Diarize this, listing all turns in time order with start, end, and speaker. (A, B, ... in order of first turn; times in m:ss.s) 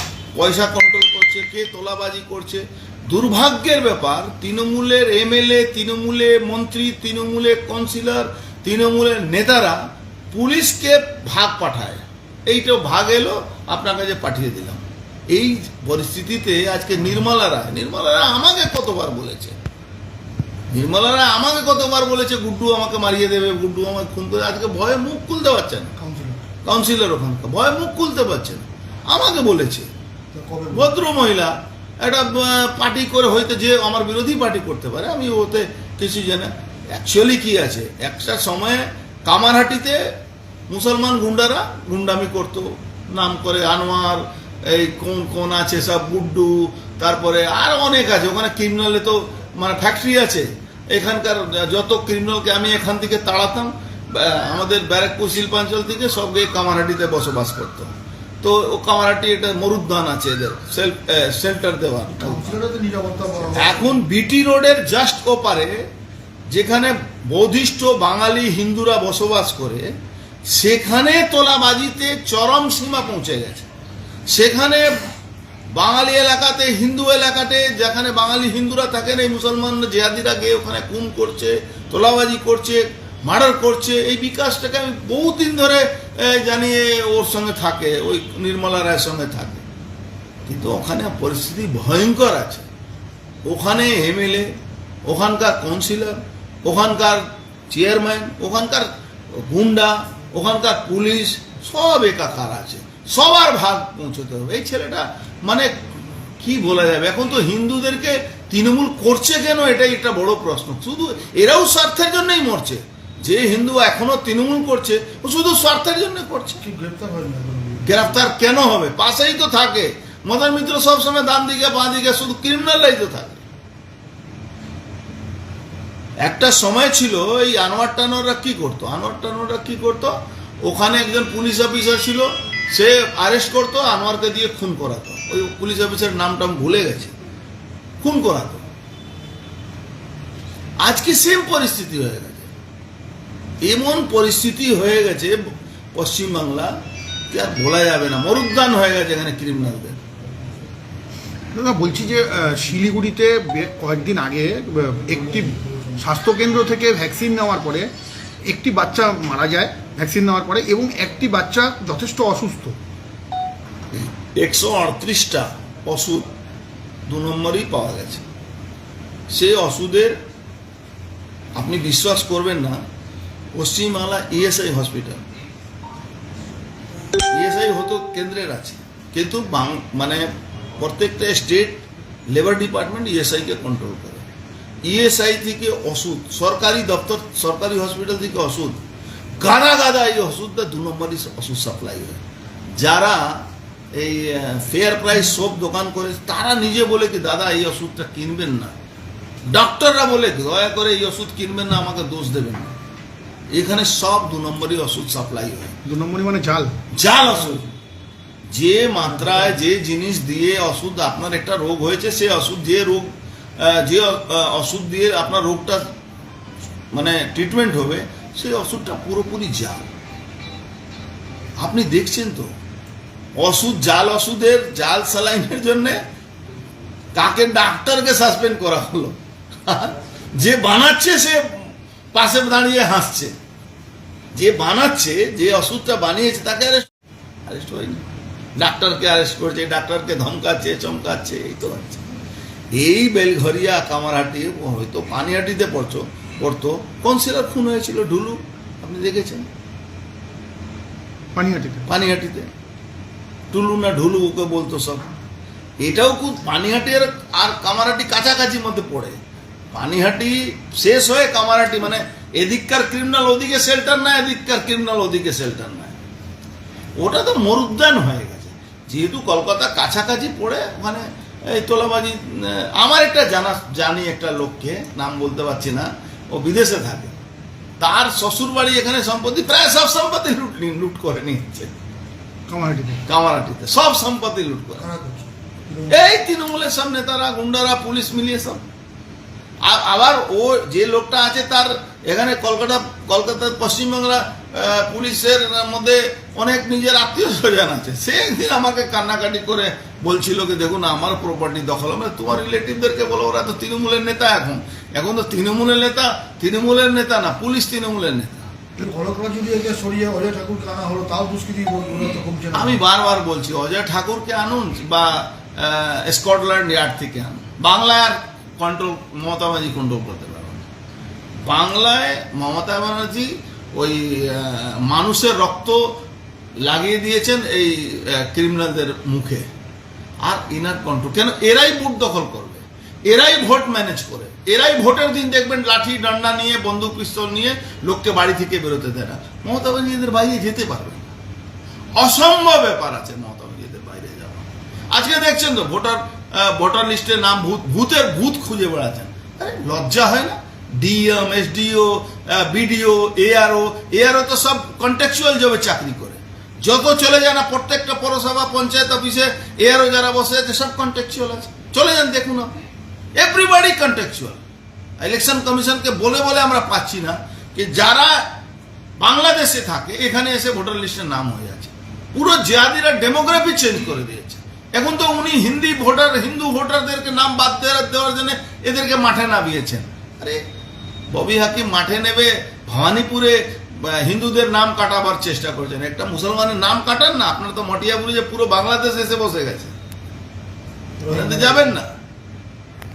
0:00.4-0:19.6 A
0:20.7-0:25.9 A
0:26.0-0:26.5 B
0:26.6-0:29.9 A
0:30.3-0:31.0 B
0:30.7-0:40.1 A
0:40.7-1:02.6 A
1:02.2-1:04.0 B
1:03.5-1:05.9 A
1:06.5-1:09.9 A
1:10.5-1:13.7 A
1:14.3-1:15.0 A
1:15.7-1:29.6 A
1:30.4-1:32.7 A
1:33.4-1:34.5 A
1:35.0-1:45.8 A
1:46.4-1:56.6 A
1:56.6-1:58.1 B
1:57.8-2:03.4 A
2:06.2-2:17.2 A
2:18.0-2:18.6 A
2:20.8-2:22.5 A
2:23.6-2:26.8 A
2:27.3-2:30.0 A
2:31.5-2:37.9 C
2:35.0-2:36.0 B
2:38.4-2:42.8 C
2:43.9-2:46.3 A
2:47.1-2:48.2 A
2:49.3-2:50.2 A
2:51.6-2:52.8 A
2:53.6-2:55.3 A
2:57.2-3:04.3 A
3:04.8-3:08.8 A
3:09.4-3:12.2 A
3:12.8-3:18.7 A
3:19.5-3:22.7 A
3:23.5-3:25.8 A
3:25.8-3:26.8 C
3:26.9-3:27.6 A
3:27.3-3:27.7 B
3:28.5-3:35.9 A
3:29.2-3:29.4 B
3:36.9-3:39.9 A
3:41.6-3:42.5 A
3:43.4-3:46.0 A
3:47.1-3:53.4 A
3:54.3-3:56.9 A
3:57.4-3:58.0 A
3:58.6-4:02.1 A
4:02.7-4:09.5 A
4:11.4-4:11.9 C
4:11.9-4:12.5 A
4:13.5-4:15.1 A
4:15.8-4:19.2 A
4:19.7-4:26.0 A
4:27.0-4:37.2 A
4:37.8-4:41.8 A
4:42.5-4:43.0 C
4:43.0-4:44.9 A
4:44.8-4:46.1 B
4:45.9-4:48.6 A
4:49.6-5:08.5 A
5:08.8-5:12.8 B
5:12.5-5:20.7 A
5:21.4-5:26.0 A
5:26.6-5:29.5 A
5:30.2-5:41.1 A
5:42.0-6:02.6 A
6:03.2-6:04.4 A
6:05.0-6:08.3 A
6:09.0-6:20.4 A
6:21.1-6:29.8 A
6:31.0-6:31.8 B
6:31.1-6:31.9 A